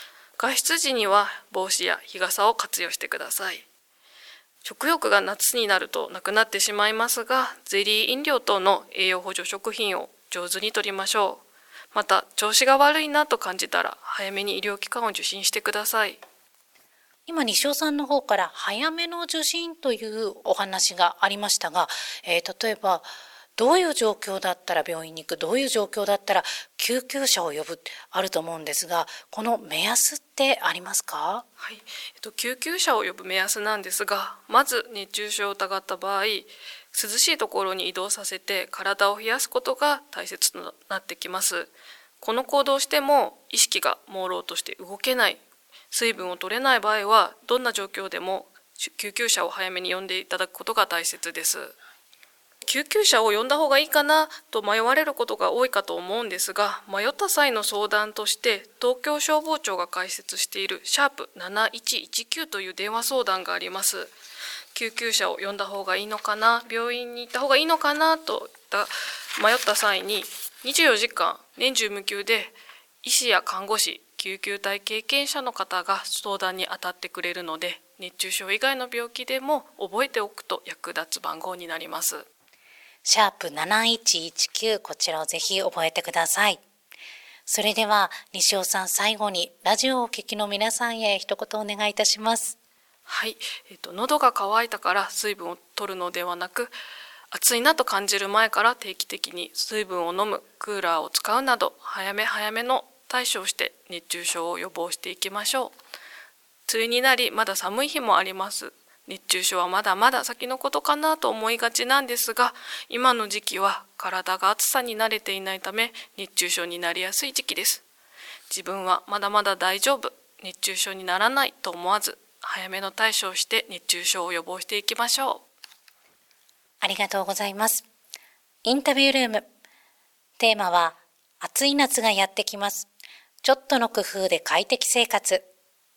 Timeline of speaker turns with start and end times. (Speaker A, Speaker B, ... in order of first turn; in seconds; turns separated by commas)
Speaker A: 0.4-3.6, Speaker A: 4.6-16.2, Speaker B: 17.3-31.4, Speaker A: 31.6-51.8, Speaker A: 52.7-64.1, Speaker A: 64.7-82.3, Speaker B: 83.0-86.6, Speaker B: 87.5-92.6, Speaker A: 93.1-96.7, Speaker A: 97.3-105.7, Speaker A: 106.7-117.8, Speaker A: 118.5-125.5, Speaker B: 126.8-127.8, Speaker B: 128.6-129.4, Speaker B: 130.4-132.9, Speaker B: 133.4-135.5